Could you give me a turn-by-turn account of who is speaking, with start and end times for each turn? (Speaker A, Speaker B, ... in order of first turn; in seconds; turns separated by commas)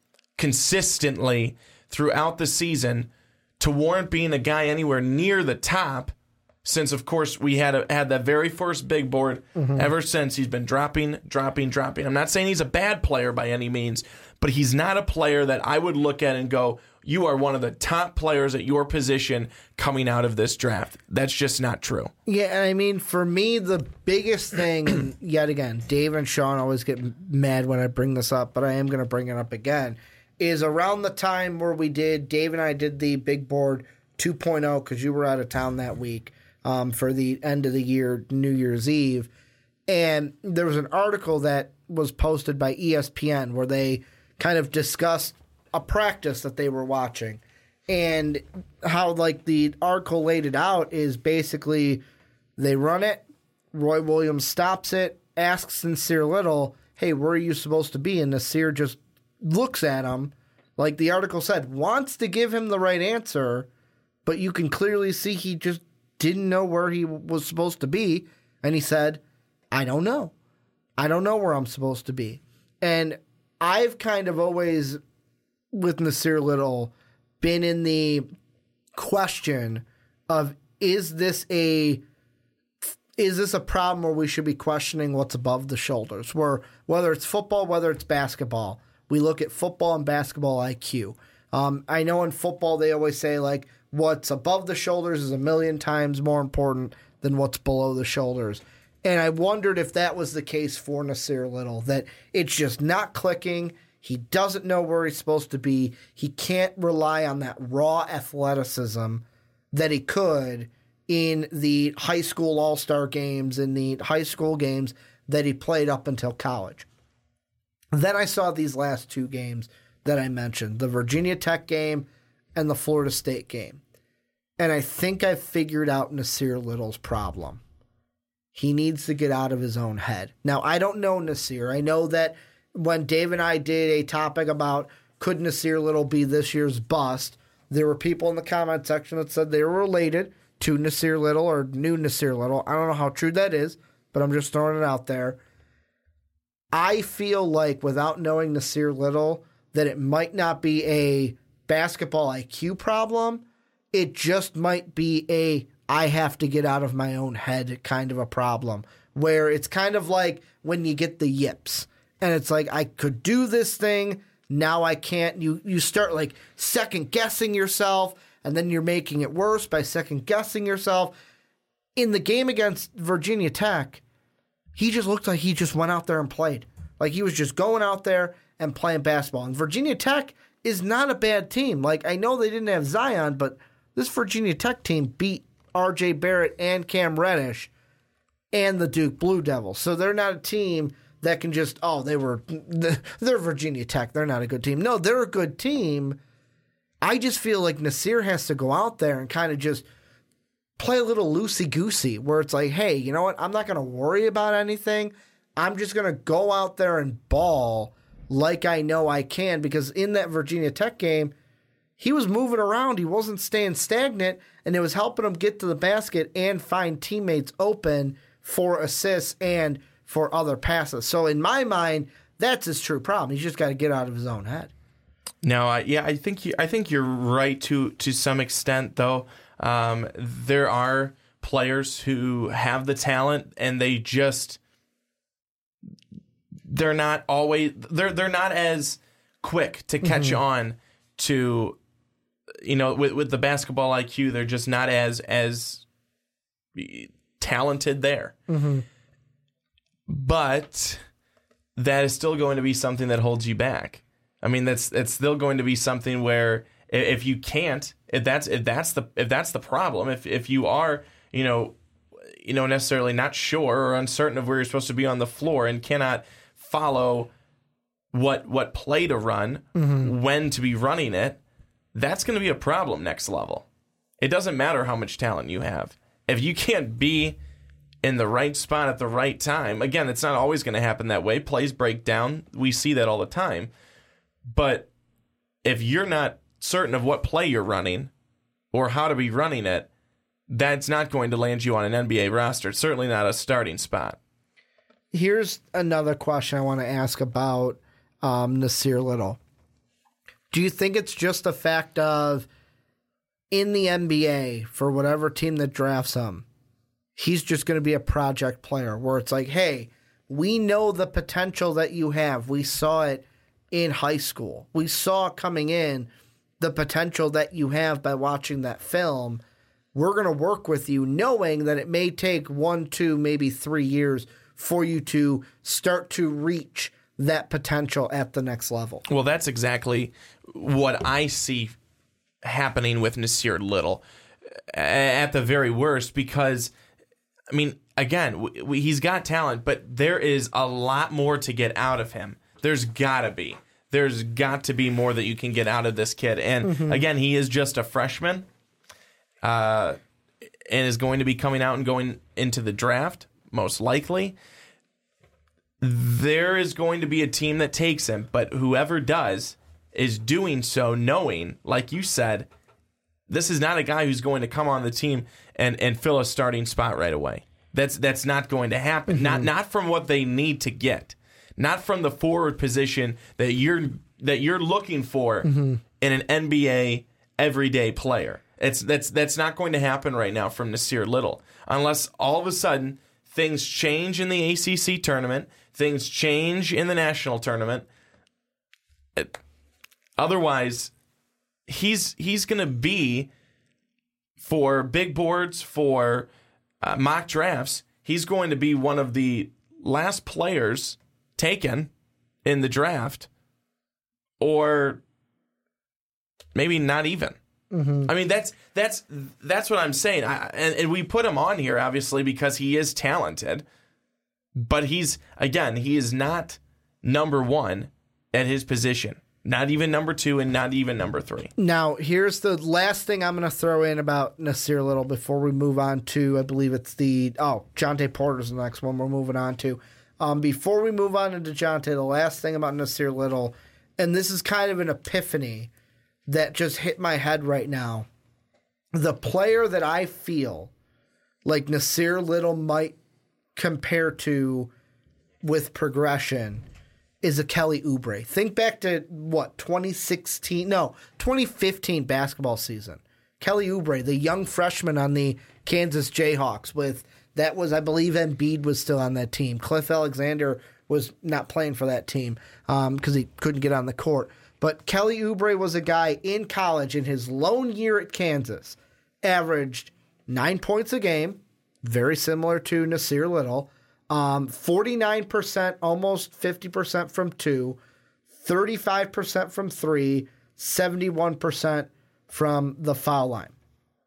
Speaker A: 0.3-22.1, Speaker B: 9.6-9.8, Speaker B: 22.3-39.3, Speaker B: 39.9-52.0, Speaker B: 52.6-63.7, Speaker B: 64.2-70.3, Speaker B: 71.0-75.0, Speaker B: 75.7-78.2, Speaker B: 78.9-82.0, Speaker B: 83.2-116.8, Speaker B: 117.9-123.8, Speaker B: 124.6-127.6, Speaker B: 128.5-145.4, Speaker B: 146.7-171.1, Speaker B: 171.9-174.0, Speaker B: 174.8-187.7, Speaker B: 188.5-196.2, Speaker B: 197.0-199.8, Speaker B: 200.8-211.3, Speaker B: 212.0-224.7, Speaker A: 225.4-234.6, Speaker A: 236.7-241.8, Speaker B: 240.0-240.4, Speaker A: 242.6-245.8, Speaker A: 246.7-248.3, Speaker B: 248.5-248.8, Speaker A: 250.1-251.0, Speaker A: 251.8-267.3, Speaker A: 268.1-271.4, Speaker B: 269.8-270.1, Speaker A: 271.9-273.6, Speaker A: 274.2-277.4, Speaker A: 278.0-283.7, Speaker A: 284.5-284.9, Speaker A: 285.6-288.1, Speaker A: 288.7-289.9, Speaker A: 290.5-294.2, Speaker B: 295.1-299.4, Speaker B: 300.5-302.5, Speaker B: 303.5-306.4, Speaker B: 307.1-319.4, Speaker B: 319.9-329.0, Speaker A: 329.1-331.8, Speaker A: 332.4-334.0, Speaker A: 334.7-336.7, Speaker A: 337.5-348.4, Speaker B: 346.6-347.0, Speaker A: 349.4-350.0, Speaker A: 350.7-354.4, Speaker A: 355.8-362.5, Speaker A: 363.3-387.9, Speaker B: 369.1-369.4, Speaker B: 375.4-375.8, Speaker A: 390.2-390.9, Speaker A: 391.7-393.3, Speaker A: 394.4-396.3, Speaker A: 396.8-401.9, Speaker A: 402.4-403.3, Speaker A: 404.4-405.0, Speaker A: 406.5-407.4, Speaker B: 407.7-408.1, Speaker A: 408.0-413.6, Speaker A: 414.5-421.5, Speaker B: 421.6-435.7, Speaker B: 436.3-438.1, Speaker B: 438.9-440.7, Speaker B: 441.4-442.9, Speaker B: 443.5-444.7, Speaker B: 445.4-446.6, Speaker B: 447.2-477.8, Speaker B: 478.4-483.5